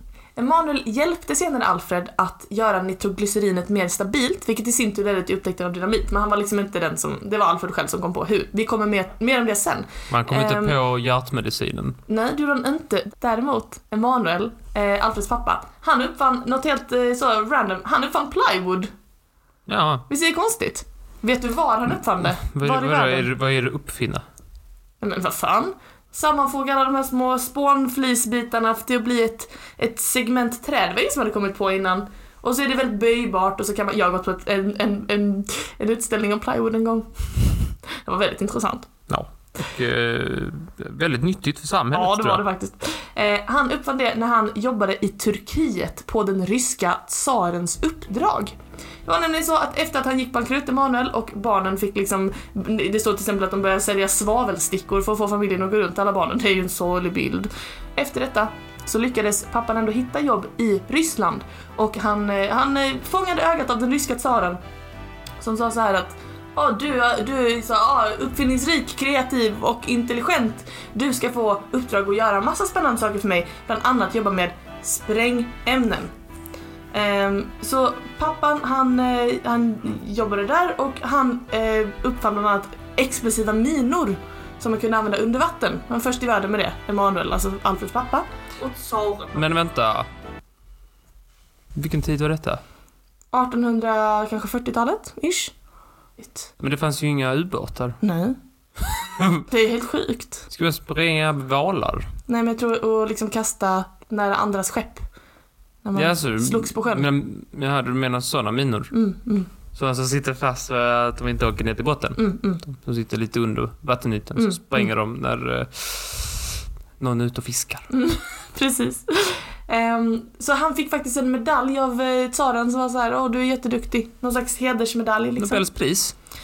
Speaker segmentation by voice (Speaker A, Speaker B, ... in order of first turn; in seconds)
Speaker A: 0.4-10.8, 12.1-18.9, 20.1-23.3, 25.0-38.9, 41.9-64.6, 65.4-76.1, 76.9-89.5, 93.3-95.5, 96.2-96.5, 98.0-98.4, 99.5-100.5, 102.3-105.1, 105.8-107.1, 108.9-109.5, 112.2-112.6, 117.9-125.7
Speaker B: 10.1-12.0, 19.7-20.1, 22.5-24.2, 39.1-42.4, 89.3-90.1, 91.8-92.6, 96.6-98.0, 99.0-99.5, 100.5-102.1, 106.0-108.9, 109.7-117.9, 125.4-126.2